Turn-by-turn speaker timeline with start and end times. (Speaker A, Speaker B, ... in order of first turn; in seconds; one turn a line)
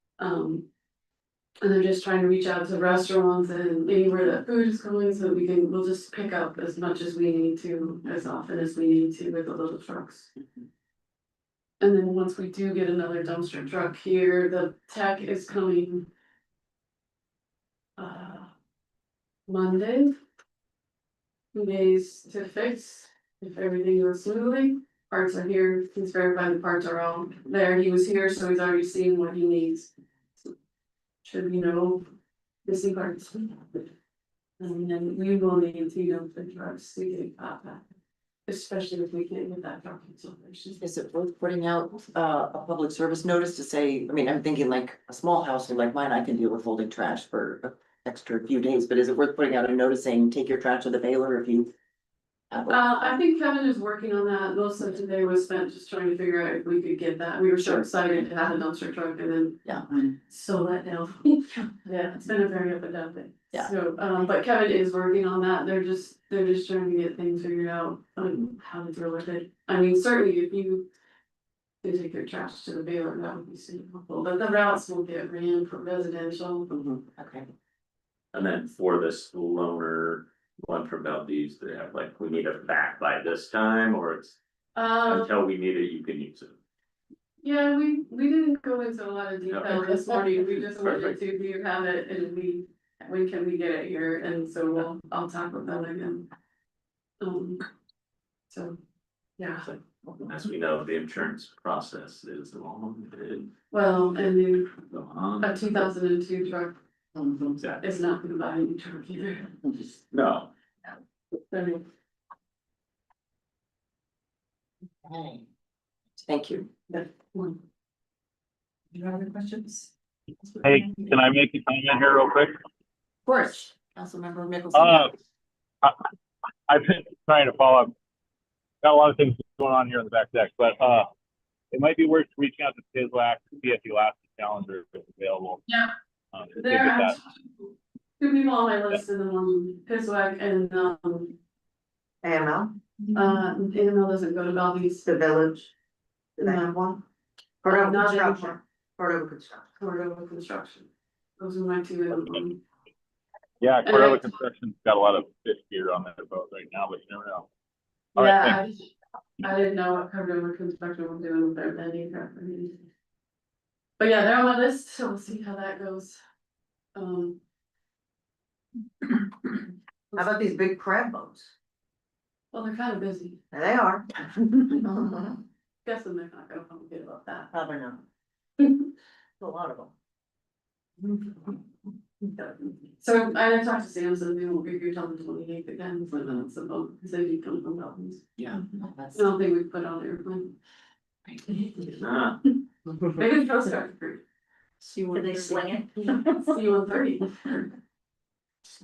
Speaker A: 0.2-0.7
Speaker A: 1.6-10.3
Speaker A: 11.8-16.1
Speaker A: 18.0-18.5
Speaker A: 19.5-20.2
Speaker A: 21.5-29.9
Speaker A: 31.2-32.0
Speaker A: 32.6-33.9
Speaker A: 34.6-37.8
Speaker A: 38.5-40.8
Speaker B: 40.8-51.7
Speaker B: 52.5-53.1
Speaker A: 52.7-70.9
Speaker B: 57.6-57.9
Speaker A: 71.8-76.7
Speaker B: 76.7-77.5
Speaker C: 78.3-84.4
Speaker A: 84.8-85.3
Speaker C: 85.0-86.6
Speaker A: 87.4-96.3
Speaker C: 89.5-89.9
Speaker C: 90.7-91.2
Speaker A: 97.2-97.6
Speaker A: 98.5-98.8
Speaker A: 99.4-99.7
Speaker C: 100.2-103.5
Speaker A: 103.7-104.8
Speaker C: 104.9-105.7
Speaker A: 105.4-106.8
Speaker C: 107.6-107.8
Speaker A: 107.8-109.8
Speaker C: 110.1-110.5
Speaker A: 111.5-111.8
Speaker B: 115.1-115.5
Speaker B: 116.2-116.8
Speaker A: 116.9-117.6
Speaker B: 118.9-119.9
Speaker B: 120.4-121.1
Speaker D: 120.6-122.5
Speaker B: 123.3-125.1
Speaker D: 124.7-125.1
Speaker D: 126.7-127.9
Speaker D: 128.8-131.1
Speaker D: 131.7-135.6
Speaker D: 136.3-137.2
Speaker A: 136.6-141.4
Speaker E: 142.2-142.8
Speaker A: 143.1-145.1
Speaker E: 145.0-145.7
Speaker E: 146.4-147.1
Speaker E: 147.6-149.7
Speaker A: 147.7-148.6
Speaker A: 149.8-152.6
Speaker D: 153.6-157.5
Speaker A: 153.8-154.3
Speaker A: 158.2-162.8
Speaker D: 158.2-158.6
Speaker A: 164.0-166.2
Speaker A: 166.9-167.4
Speaker E: 170.2-171.5
Speaker A: 172.5-173.4
Speaker E: 173.5-174.1
Speaker E: 174.7-175.4
Speaker A: 175.8-177.5
Speaker E: 177.5-178.0
Speaker E: 179.4-179.9
Speaker A: 183.0-188.2
Speaker B: 188.4-189.3
Speaker A: 189.2-190.6
Speaker B: 191.3-191.7
Speaker C: 191.8-192.4
Speaker A: 193.2-194.2
Speaker B: 194.8-195.8
Speaker A: 196.5-197.7